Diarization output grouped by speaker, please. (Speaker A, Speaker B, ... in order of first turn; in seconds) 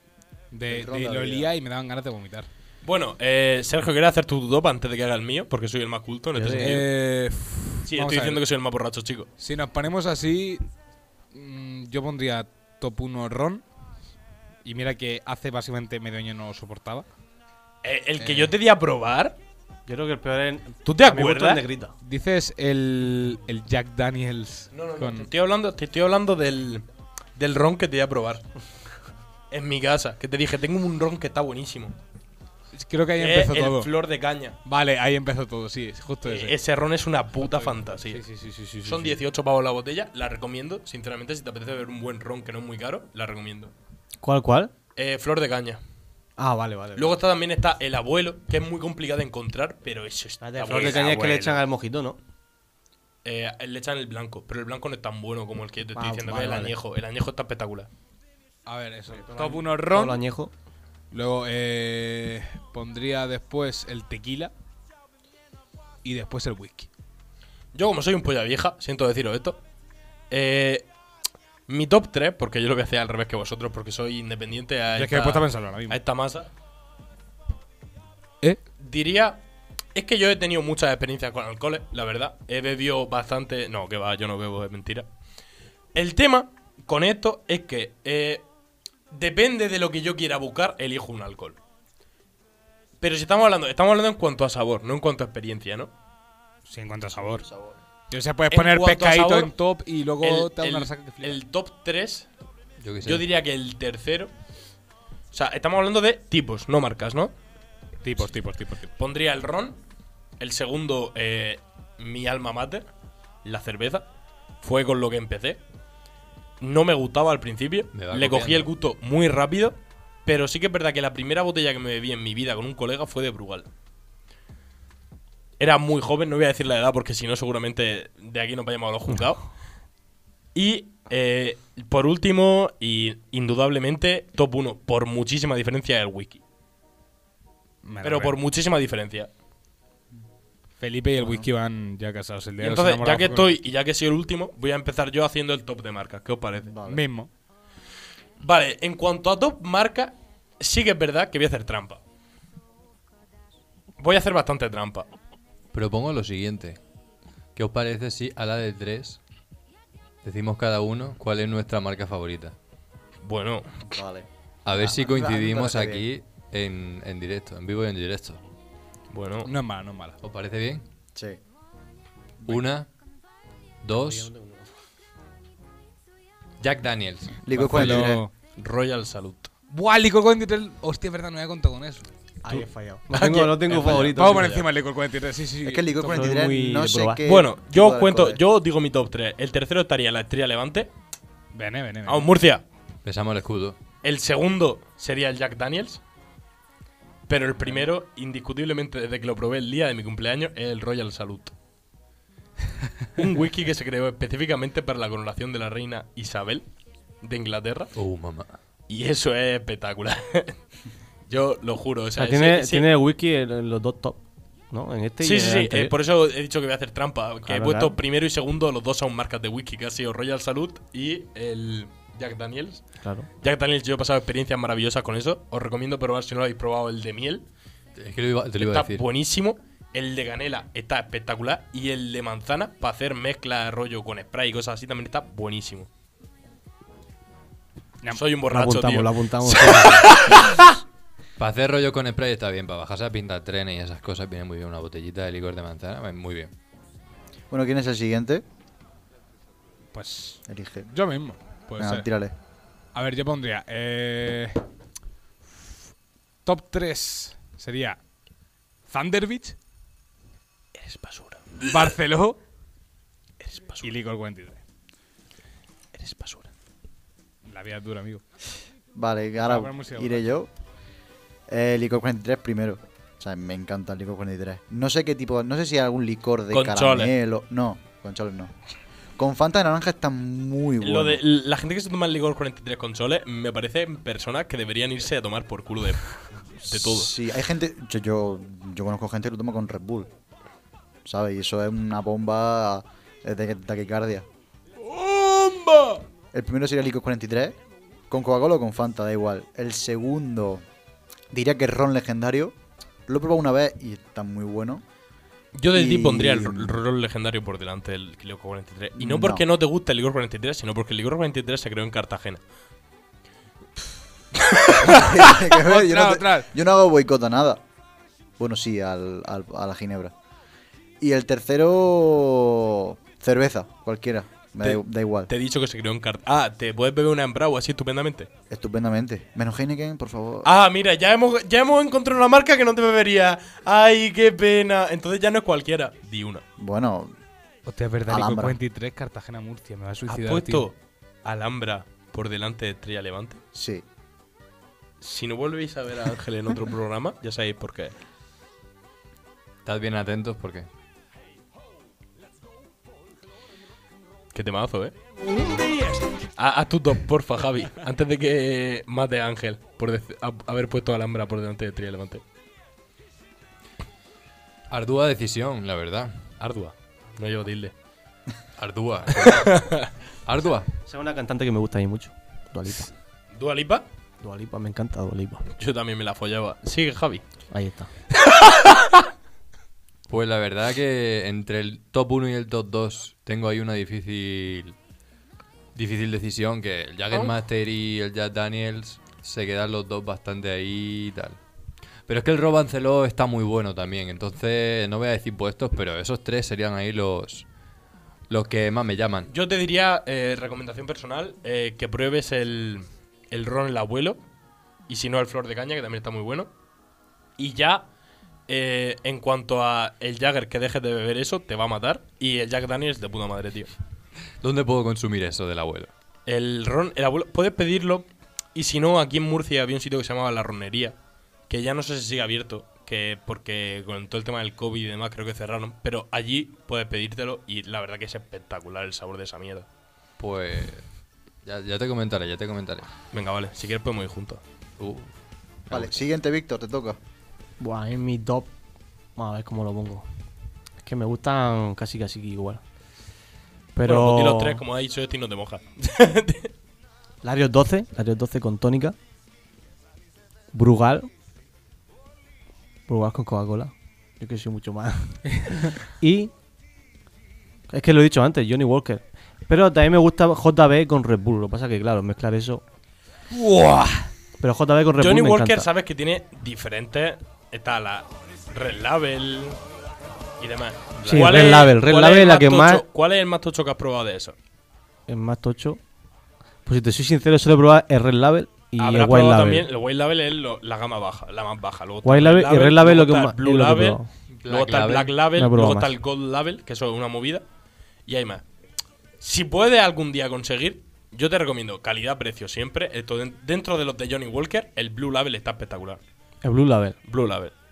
Speaker A: 0.5-2.5, 6.6-8.4, 9.4-10.6, 11.3-13.6, 14.6-17.1, 18.2-18.5, 22.0-25.3, 32.8-33.9, 34.6-36.6, 37.4-39.2, 58.7-60.2, 61.1-64.5, 66.0-66.9, 75.0-76.0, 96.7-97.5, 98.1-101.4, 108.0-108.9, 137.8-138.4, 140.8-143.6, 146.9-147.3, 169.4-170.2, 177.5-178.3, 179.7-182.1, 183.8-186.2, 191.5-192.3, 249.9-252.1, 252.9-254.6, 256.4-258.0, 258.9-259.6, 261.6-262.4, 263.8-264.6, 267.5-268.2, 269.4-270.3, 315.5-316.5, 337.7-340.7, 463.3-464.1
Speaker B: 0.7-1.5, 97.2-97.8, 146.6-147.1, 163.9-166.1, 171.2-171.4, 177.4-178.2, 185.6-188.4, 247.5-248.4, 250.5-250.9, 251.8-252.3, 268.9-270.5, 271.5-278.5, 279.2-281.2, 286.7-290.1, 291.1-294.3, 296.3-297.6, 298.1-300.6, 301.3-302.6, 303.1-304.8, 305.7-306.8, 309.0-309.4, 314.8-317.6, 318.4-320.1, 321.0-325.3, 328.5-330.5, 336.6-337.1, 338.1-338.6, 343.5-343.8, 435.7-437.0
Speaker C: 2.8-7.0, 7.9-9.3, 17.8-19.4, 20.9-21.6, 24.7-26.9, 27.4-28.4, 29.5-32.0, 33.2-34.6, 36.2-38.2, 38.8-43.7, 45.0-45.8, 47.0-51.6, 53.2-57.9, 67.7-69.6, 70.3-70.9, 71.7-76.5, 78.8-79.4, 80.0-85.1, 85.9-88.5, 89.1-91.6, 93.0-95.9, 98.5-99.5, 100.2-102.3, 103.0-104.3, 105.3-107.3, 109.0-109.8, 110.4-112.9, 113.4-114.1, 114.6-115.6, 116.6-123.7, 125.6-129.5, 130.5-136.4, 138.0-139.3, 142.6-146.8, 148.4-152.0, 154.0-155.1, 163.2-163.8, 169.1-169.5, 178.6-179.5, 183.1-184.7, 187.2-190.9, 192.1-192.6, 194.0-196.0, 197.3-201.5, 203.2-206.7, 207.2-207.9, 208.9-210.6, 211.3-212.9, 215.2-222.9, 223.4-227.5, 228.6-235.9, 238.1-240.7, 260.8-261.9, 263.4-263.9, 265.9-266.5, 276.5-277.1, 280.8-287.1, 294.8-296.0, 305.6-312.4, 314.5-314.8, 324.6-328.3, 330.4-336.4, 340.1-343.4, 345.0-347.9, 354.3-354.9, 356.4-362.2, 366.4-367.7, 369.1-369.9, 373.3-373.9, 375.6-377.2, 378.2-379.0, 399.3-404.2, 404.9-406.5, 407.4-407.9, 408.5-413.7, 416.3-421.0, 421.5-429.7, 433.1-434.4, 443.9-446.5, 465.0-469.6, 470.4-474.4, 478.8-484.0, 484.5-487.4, 488.1-488.4, 489.2-496.0, 497.1-497.5
Speaker D: 6.3-6.8, 19.9-21.9, 44.2-44.7, 46.4-47.2, 50.4-52.2, 56.0-56.8, 59.1-60.5, 173.9-174.7, 182.4-184.6, 186.0-187.2, 212.2-215.9, 217.4-218.0, 223.0-223.3, 238.5-240.4, 370.9-372.9, 374.2-375.5, 377.5-377.9, 437.6-438.5, 439.2-440.1, 440.8-442.6, 443.8-444.6, 447.2-449.0, 450.5-451.1, 452.9-456.3, 457.7-462.6, 464.4-465.7, 471.1-472.9, 475.1-475.8, 476.6-479.7, 482.0-484.1, 485.4-485.9, 496.4-497.0
Speaker E: 102.8-103.2, 117.9-118.7, 155.7-156.8, 157.6-159.2, 160.2-162.6, 164.7-168.4, 170.2-170.8, 172.5-172.9, 173.8-174.3, 176.6-178.0, 193.0-193.8, 208.0-208.5, 228.0-229.0, 241.4-246.5, 349.6-350.7, 364.7-366.2, 368.6-369.7, 370.2-370.7, 380.1-384.8, 385.8-391.4, 392.1-397.5, 398.3-399.3, 414.4-415.9, 430.2-430.9, 431.4-432.9, 434.8-435.1, 435.7-436.1, 484.3-485.1